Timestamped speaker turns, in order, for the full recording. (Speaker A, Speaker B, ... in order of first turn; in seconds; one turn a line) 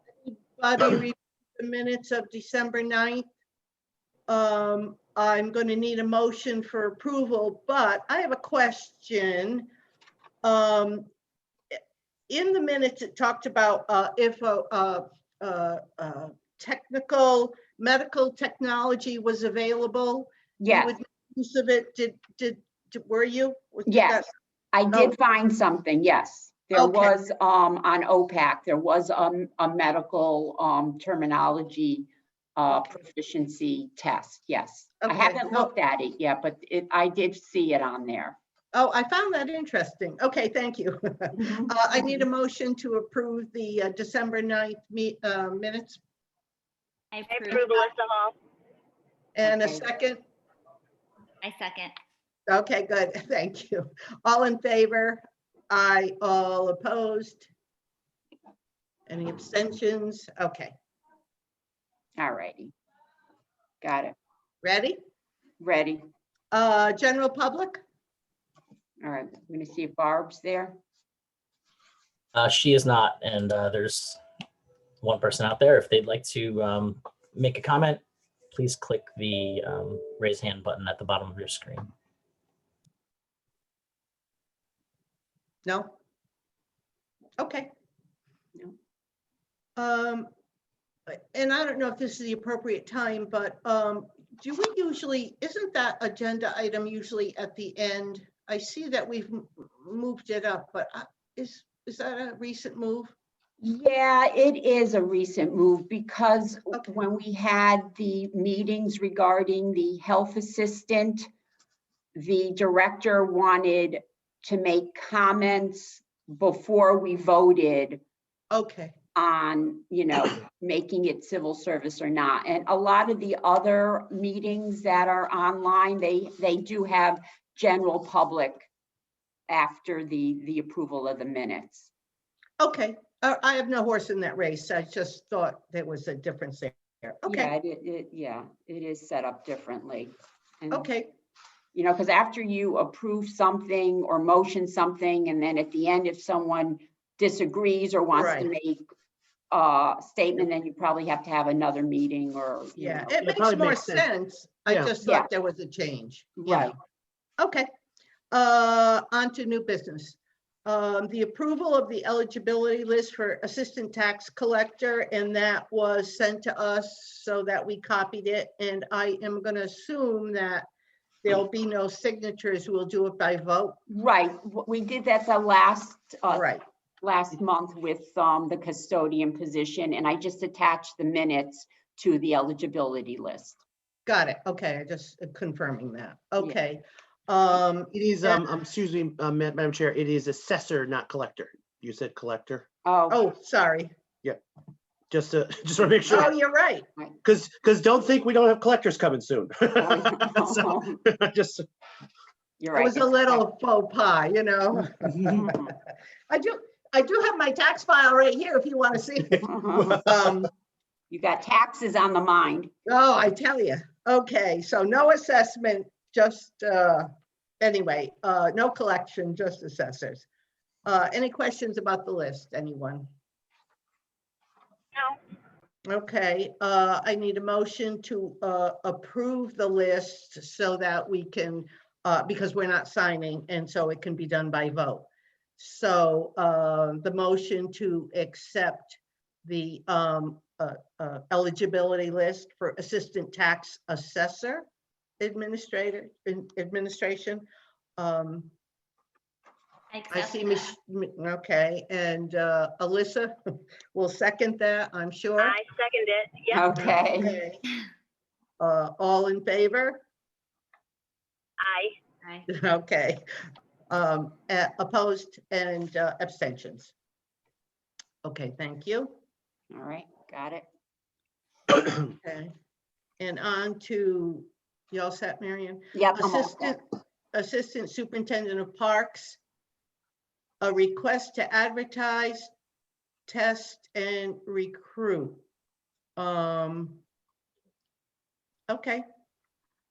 Speaker A: 0.2-3.2
Speaker A: 4.3-9.7
Speaker A: 10.4-11.1
Speaker A: 12.3-24.3
Speaker B: 20.6-20.9
Speaker B: 23.9-38.4
Speaker A: 24.9-25.2
Speaker A: 26.7-27.1
Speaker A: 35.0-35.7
Speaker A: 38.7-46.0
Speaker B: 41.4-42.2
Speaker C: 47.1-47.9
Speaker D: 47.3-48.3
Speaker A: 49.4-50.2
Speaker B: 49.4-49.8
Speaker C: 51.4-51.9
Speaker A: 52.5-57.5
Speaker A: 59.1-60.7
Speaker B: 62.2-62.7
Speaker B: 63.8-64.2
Speaker A: 64.6-65.0
Speaker B: 65.6-66.0
Speaker A: 66.5-67.8
Speaker B: 69.0-70.8
Speaker E: 72.3-74.2
Speaker E: 75.0-78.0
Speaker E: 78.5-81.9
Speaker A: 85.7-86.0
Speaker A: 87.4-87.7
Speaker A: 89.8-90.3
Speaker A: 91.1-103.1
Speaker B: 103.6-111.3
Speaker A: 106.7-107.0
Speaker B: 112.2-118.0
Speaker A: 118.5-119.0
Speaker B: 119.2-128.7
Speaker B: 129.5-131.9
Speaker A: 132.6-137.5
Speaker B: 137.2-140.9
Speaker A: 140.7-141.1
Speaker B: 141.7-148.8
Speaker A: 148.2-148.5
Speaker B: 149.5-153.2
Speaker A: 152.8-156.7
Speaker F: 153.2-154.1
Speaker B: 156.4-156.7
Speaker A: 157.4-157.7
Speaker A: 158.3-170.7
Speaker A: 171.2-173.8
Speaker B: 173.9-183.6
Speaker A: 176.3-176.6
Speaker A: 184.1-188.4
Speaker F: 187.9-192.7
Speaker B: 192.8-193.2
Speaker A: 193.1-193.9
Speaker F: 195.1-196.3
Speaker A: 196.1-196.9
Speaker F: 197.2-201.7
Speaker B: 199.8-201.0
Speaker B: 202.6-203.4
Speaker A: 202.7-205.7
Speaker B: 205.4-205.7
Speaker A: 206.3-210.5
Speaker B: 209.4-210.0
Speaker B: 211.1-212.7
Speaker A: 212.9-217.1
Speaker A: 217.6-220.3
Speaker A: 220.9-223.1
Speaker A: 225.9-244.7
Speaker A: 245.2-247.4
Speaker A: 248.0-248.5
Speaker C: 249.9-250.7
Speaker A: 250.1-253.4
Speaker A: 253.9-255.6
Speaker D: 255.4-256.6
Speaker B: 256.5-257.4
Speaker A: 257.2-257.6
Speaker A: 258.6-260.0
Speaker D: 261.6-261.9
Speaker A: 262.5-263.2
Speaker A: 263.9-266.9
Speaker A: 268.2-269.1
Speaker B: 269.7-270.6
Speaker A: 272.1-272.5
Speaker A: 273.2-276.8
Speaker B: 275.9-276.8
Speaker A: 277.3-279.4
Speaker A: 280.6-282.5
Speaker A: 283.3-285.4
Speaker A: 286.2-287.0
Speaker A: 288.7-289.1